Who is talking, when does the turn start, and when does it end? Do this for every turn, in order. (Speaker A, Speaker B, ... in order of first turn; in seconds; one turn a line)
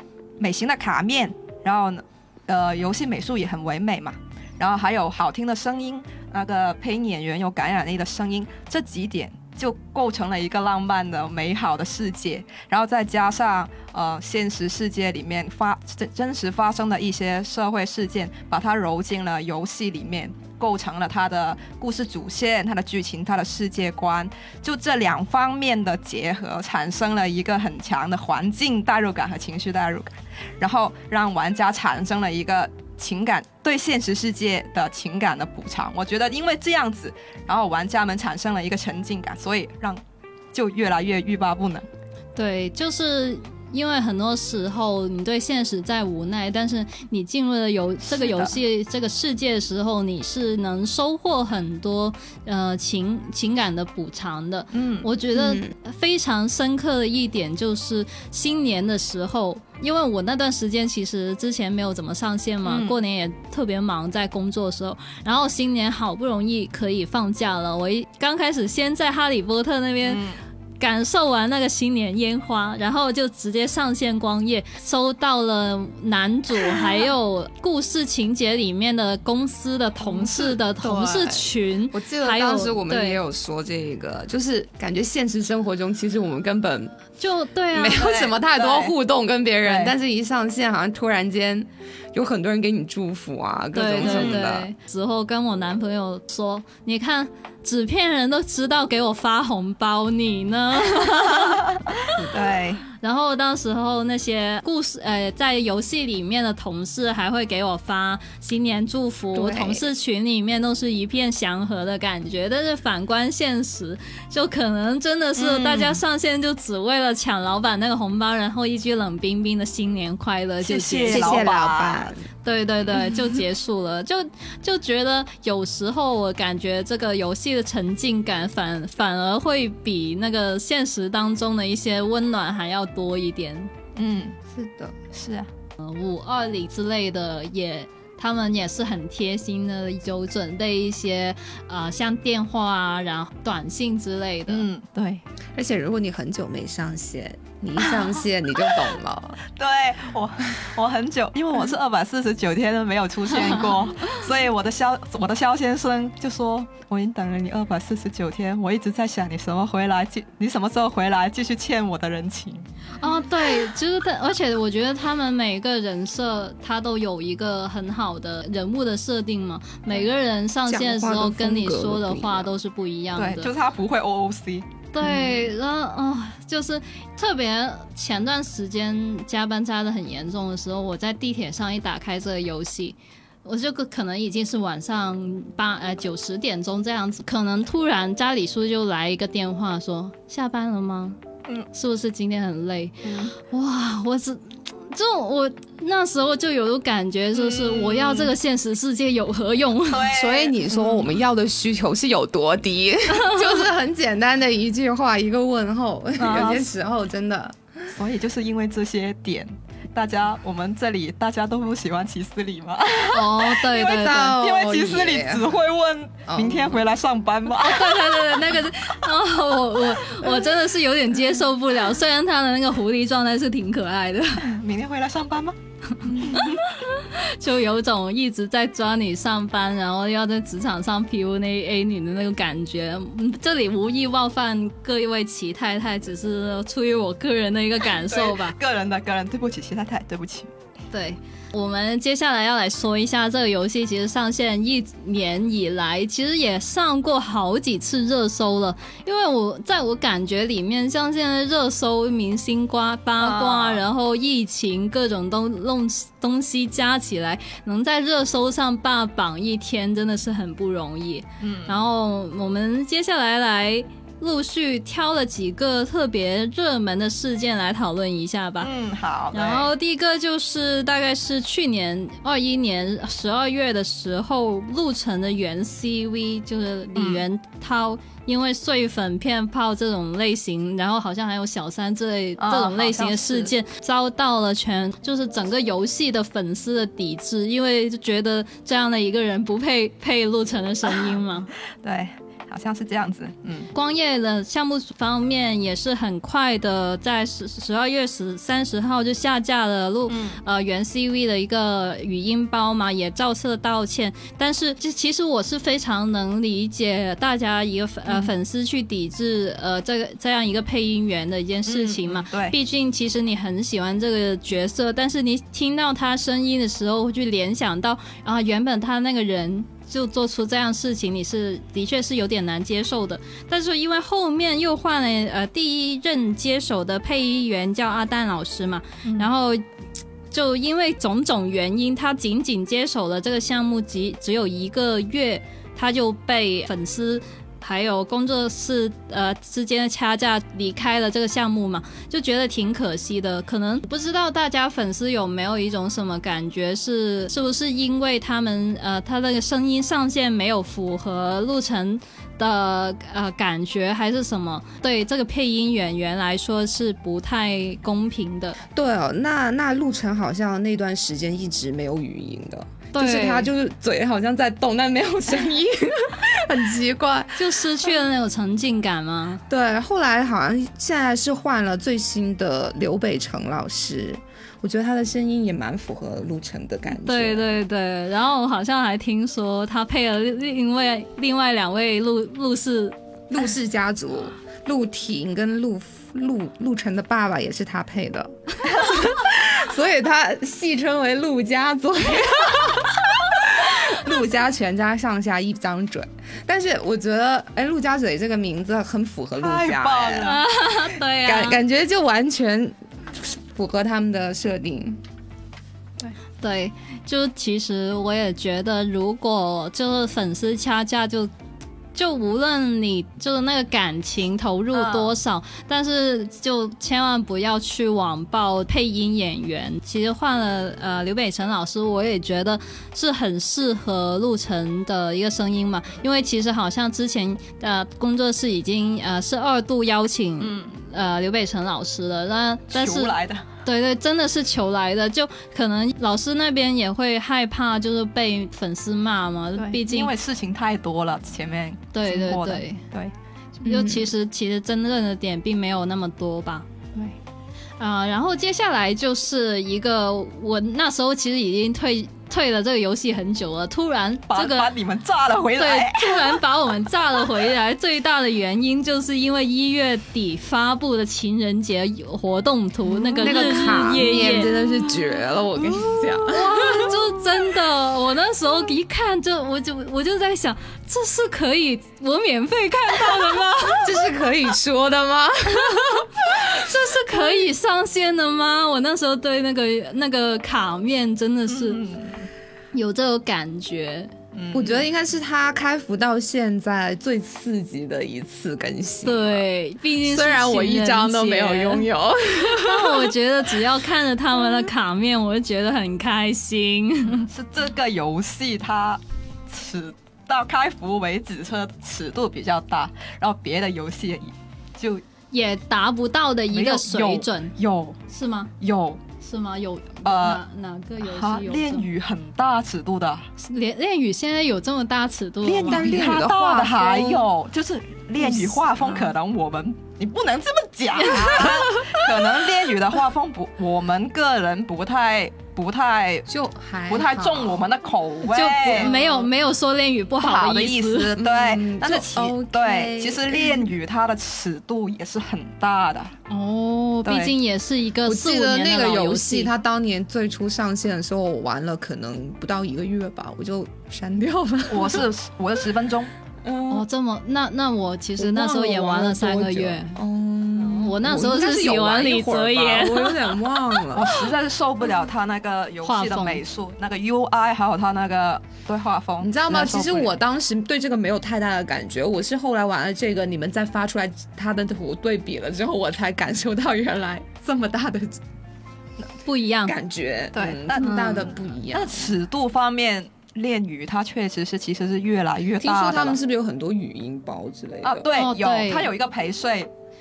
Speaker A: 0.4-40.0
Speaker A: 40.5-41.9
Speaker B: 42.4-70.2
Speaker A: 48.1-48.5
Speaker A: 54.7-55.1
Speaker C: 55.4-55.7
Speaker A: 62.6-63.0
Speaker A: 70.0-70.4
Speaker B: 70.8-83.2
Speaker A: 80.1-80.5
Speaker C: 80.8-87.0
Speaker B: 87.2-88.0
Speaker C: 87.7-94.7
Speaker A: 87.9-89.0
Speaker A: 89.6-89.9
Speaker B: 93.7-101.6
Speaker A: 94.0-94.4
Speaker A: 101.4-102.8
Speaker B: 103.0-121.4
Speaker C: 109.3-109.9
Speaker A: 115.4-116.0
Speaker A: 120.6-122.1
Speaker C: 121.1-122.2
Speaker B: 122.4-133.7
Speaker A: 134.0-134.4
Speaker C: 134.5-134.9
Speaker A: 135.1-135.5
Speaker B: 135.8-144.7
Speaker A: 144.5-145.2
Speaker C: 145.6-149.4
Speaker A: 149.6-162.7
Speaker B: 163.0-173.5
Speaker C: 170.7-172.5
Speaker A: 173.2-175.3
Speaker B: 174.9-191.2
Speaker B: 191.7-200.1
Speaker A: 193.0-193.3
Speaker A: 197.3-198.3
Speaker A: 199.9-201.1
Speaker C: 200.1-207.9
Speaker A: 206.2-206.7
Speaker A: 207.9-218.2
Speaker B: 213.1-214.4
Speaker C: 213.9-215.4
Speaker C: 216.3-216.8
Speaker B: 217.6-224.5
Speaker A: 224.4-225.6
Speaker B: 226.3-238.6
Speaker A: 238.1-240.5
Speaker B: 240.9-268.7
Speaker A: 253.2-253.8
Speaker A: 261.4-261.8
Speaker A: 268.6-269.7
Speaker B: 269.3-291.5
Speaker A: 276.9-277.2
Speaker A: 282.4-283.6
Speaker A: 291.8-293.7
Speaker B: 293.7-329.6
Speaker A: 300.1-300.4
Speaker A: 308.1-308.3
Speaker A: 311.7-312.6
Speaker A: 329.0-329.3
Speaker B: 330.3-358.6
Speaker C: 358.7-367.6
Speaker B: 362.9-363.5
Speaker B: 367.4-369.4
Speaker C: 369.5-377.4
Speaker B: 376.9-383.0
Speaker C: 383.3-400.4
Speaker A: 399.4-400.4
Speaker B: 400.2-401.6
Speaker C: 401.2-405.0
Speaker B: 406.4-411.3
Speaker B: 411.9-433.1
Speaker A: 414.7-415.1
Speaker A: 430.4-430.7
Speaker A: 432.7-433.5
Speaker B: 433.6-440.1
Speaker A: 439.6-443.1
Speaker B: 441.9-442.8
Speaker B: 443.6-446.6
Speaker C: 443.7-444.1
Speaker B: 447.8-454.7
Speaker A: 454.3-456.4
Speaker B: 455.6-464.5
Speaker C: 463.2-466.9
Speaker A: 463.2-463.5
Speaker B: 466.3-473.9
Speaker C: 473.8-476.1
Speaker B: 475.7-481.8
Speaker A: 481.5-482.3
Speaker B: 482.7-484.1
Speaker A: 484.3-484.9
Speaker C: 484.5-489.4
Speaker B: 489.0-491.9
Speaker C: 490.0-493.1
Speaker B: 492.5-497.3
Speaker A: 497.3-505.0
Speaker B: 505.3-507.5
Speaker A: 506.5-508.0
Speaker B: 508.1-508.5
Speaker A: 508.6-509.0
Speaker B: 509.2-511.9
Speaker A: 510.1-510.4
Speaker A: 511.0-513.3
Speaker B: 513.4-515.9
Speaker A: 515.4-526.2
Speaker C: 515.7-517.3
Speaker C: 518.2-519.1
Speaker C: 526.3-527.7
Speaker A: 526.9-529.3
Speaker B: 528.3-531.1
Speaker A: 530.2-536.1
Speaker C: 531.2-533.7
Speaker B: 536.3-539.5
Speaker A: 537.1-537.3
Speaker C: 538.0-545.0
Speaker A: 544.7-546.1
Speaker C: 546.4-546.9
Speaker B: 546.7-550.0
Speaker C: 548.2-554.3
Speaker B: 550.6-553.2
Speaker A: 553.9-560.1
Speaker B: 555.9-556.4
Speaker C: 559.2-568.2
Speaker B: 569.2-569.7
Speaker C: 569.6-572.1
Speaker A: 570.3-576.2
Speaker B: 570.8-571.3
Speaker C: 575.6-578.1
Speaker A: 577.8-579.7
Speaker B: 578.1-578.9